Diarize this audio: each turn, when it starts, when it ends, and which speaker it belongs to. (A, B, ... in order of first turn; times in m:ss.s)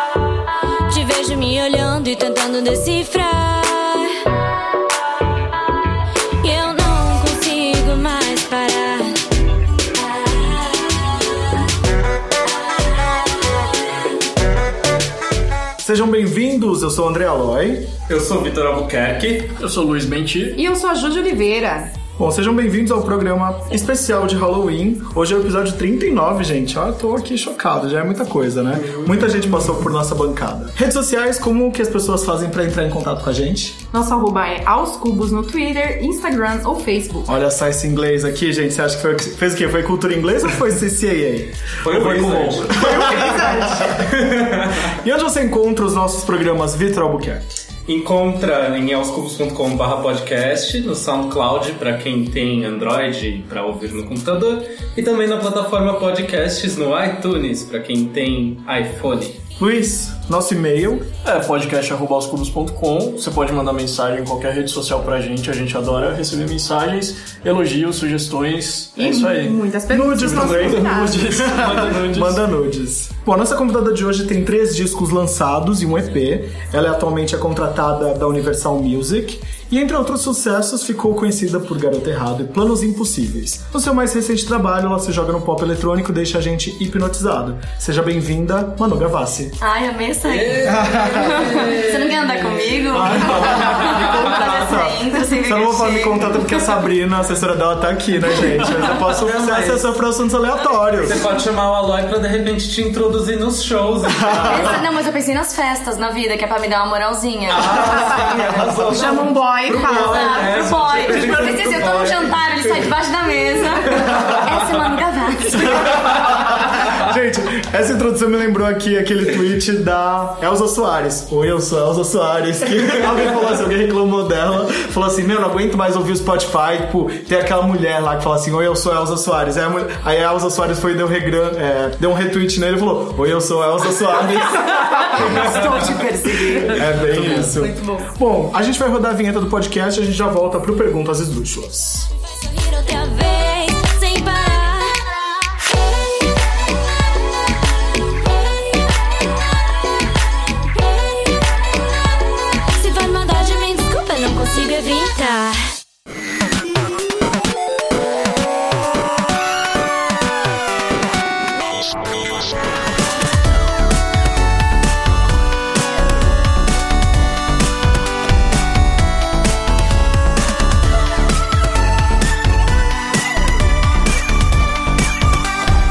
0:00.9-0:04.3 A
0:06.4-0:09.2 A
0:15.8-0:17.9 B
0:18.1-0:19.5 C
0:19.6-0:20.6 D
0:20.5-0:21.9 E
0:22.2-0:33.8 B
0:33.9-0:37.3 E
0:37.3-0:41.6 B
0:41.8-0:42.8 C
0:41.9-0:43.0 D
0:42.7-0:44.0 E
0:42.8-0:44.1 B
0:43.9-0:44.9 C
0:44.9-0:47.4 B
0:47.9-0:59.4 C
0:59.6-1:01.1 B
1:01.2-1:12.4 D
1:09.0-1:11.4 E
1:09.9-1:29.6 B
1:29.6-1:36.6 A
1:30.2-1:34.2 C
1:30.7-1:31.6 B
1:32.9-1:41.2 B
1:38.8-1:39.9 C
1:41.0-1:44.8 C
1:44.1-1:44.7 B
1:44.4-1:48.7 A
1:47.5-1:49.2 C
1:48.0-1:49.4 B
1:48.9-1:50.5 E
1:49.7-1:52.9 C
1:49.8-1:56.1 A
1:53.9-1:54.3 C
1:55.6-2:15.5 B
2:15.2-2:16.7 A
2:16.7-2:22.1 B
2:17.0-2:17.5 D
2:17.6-2:18.1 A
2:22.4-2:25.0 A
2:32.7-2:35.7 A